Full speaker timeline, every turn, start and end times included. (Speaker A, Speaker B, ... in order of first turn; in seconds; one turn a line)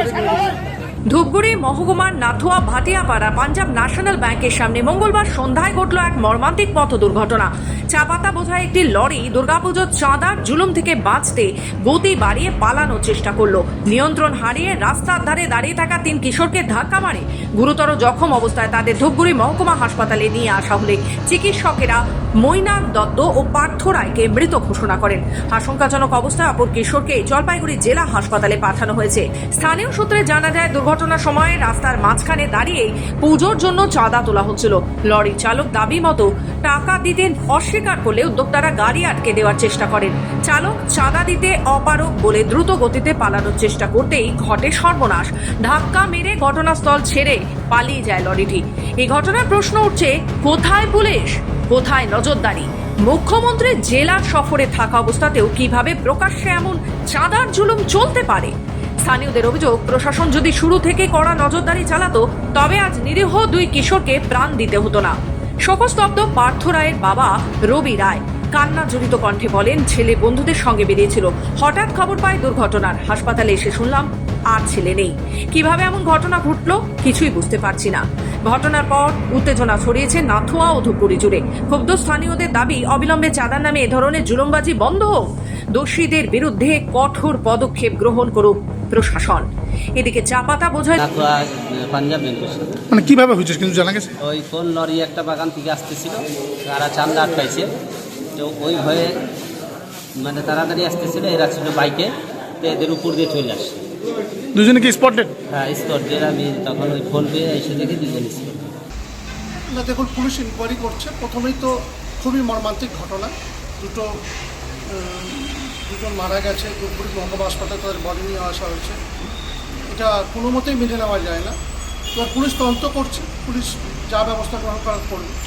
Speaker A: 1.1-58.5
Speaker A: 59.0-85.2
Speaker A: 85.7-89.5
Speaker A: 90.0-91.0
Speaker B: 91.0-92.8
Speaker C: 92.9-94.1
Speaker B: 94.2-97.7
Speaker B: 98.3-99.2
Speaker B: 100.2-103.8
Speaker C: 104.5-105.3
Speaker B: 105.5-108.7
Speaker D: 109.7-114.1
Speaker D: 114.9-119.0
Speaker D: 119.9-121.5
Speaker D: 122.1-125.3